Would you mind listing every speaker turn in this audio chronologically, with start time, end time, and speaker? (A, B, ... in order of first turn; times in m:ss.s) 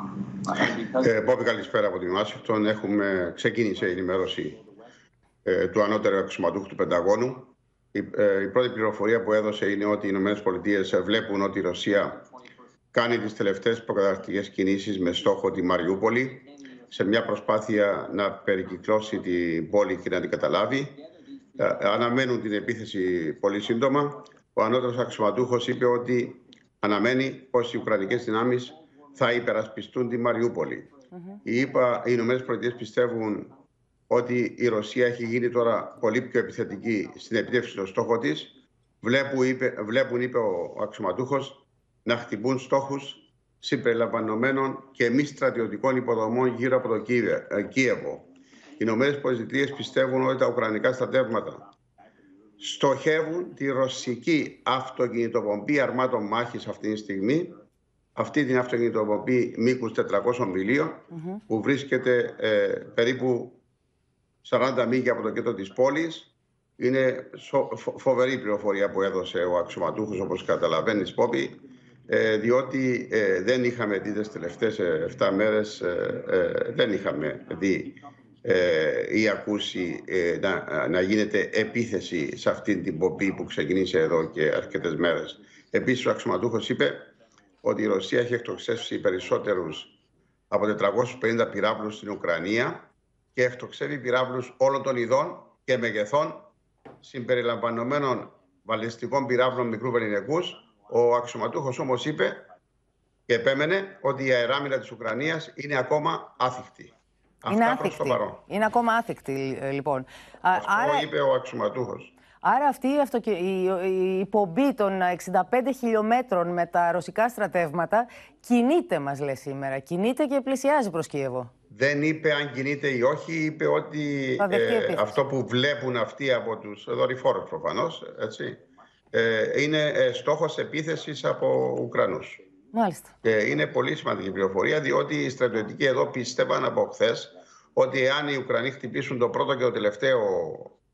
0:00.5-0:04.6 A
0:05.4-0:12.2 A
0:12.9-0:21.0 A
0:21.6-0:30.9 A
0:31.4-0:33.5 A
0:34.1-0:48.3 A
0:48.8-0:51.7 A
0:52.6-0:57.5 A
0:58.2-1:03.6 A
1:04.4-1:27.1 A
1:27.6-1:29.9 A
1:30.5-1:36.5 A
1:37.0-1:42.4 A
1:43.3-1:48.4 A
1:47.4-1:51.1 B
1:50.5-1:52.1 A
1:52.4-2:01.5 B
2:01.7-2:08.6 A
2:04.4-2:05.2 B
2:09.1-2:12.4 A
2:12.7-2:13.1 B
2:13.2-2:20.8 A